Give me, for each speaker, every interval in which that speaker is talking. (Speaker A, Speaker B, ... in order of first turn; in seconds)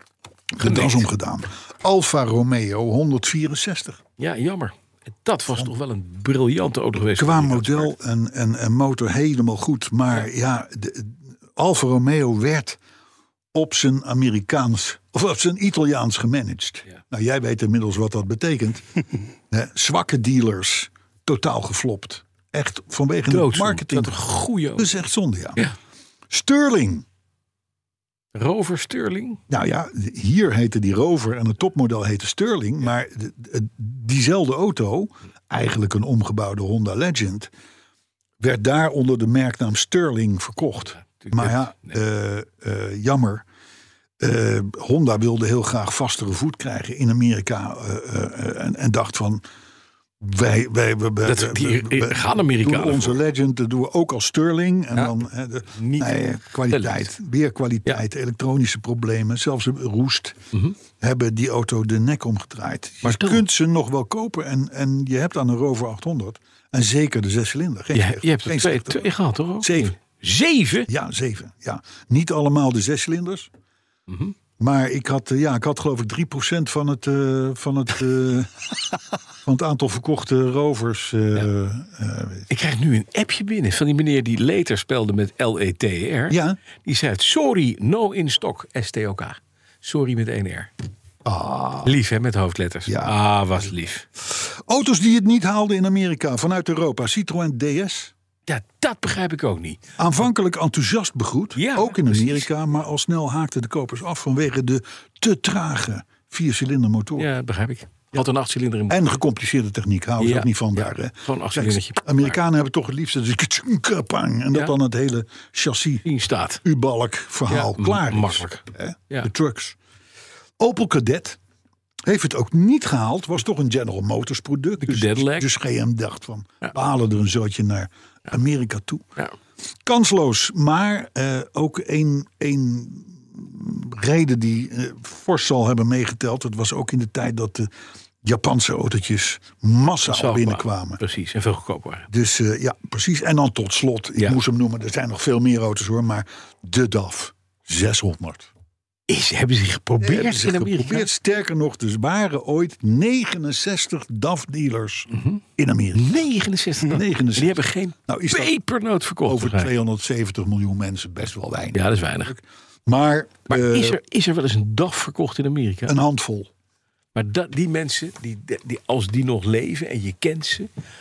Speaker A: 0.5-4.0, 7.2-12.8, 13.5-18.8, 19.5-24.2, 24.8-25.7, 26.3-27.1, 29.5-37.5, 38.4-43.5, 44.2-49.4, 50.2-60.4, 60.9-70.0, 70.9-73.5, 74.6-78.6, 79.5-82.5, 86.3-86.6, 91.2-91.9, 92.9-93.2, 94.2-98.1, 100.0-107.3, 108.9-116.0, 116.6-119.8, 120.6-121.4, 122.0-129.1, 129.8-137.7, 138.2-141.0, 142.1-148.5, 150.0-156.2, 156.9-158.5, 159.3-164.0, 165.9-166.5
Speaker B: 0.6-1.1, 4.2-7.9, 23.3-24.9, 28.4-29.4, 41.0-42.0, 51.2-53.2, 55.7-57.1, 63.0-63.4, 67.9-70.9, 74.1-74.3, 82.5-90.7, 91.8-94.1, 98.5-99.8, 101.5-102.5, 107.2-109.1, 110.2-112.4, 116.0-116.6, 117.5-119.3, 124.8-125.5, 140.1-142.1, 149.1-151.1, 155.1-155.4, 155.9-159.7, 161.7-162.3, 163.5-166.0, 167.2-170.7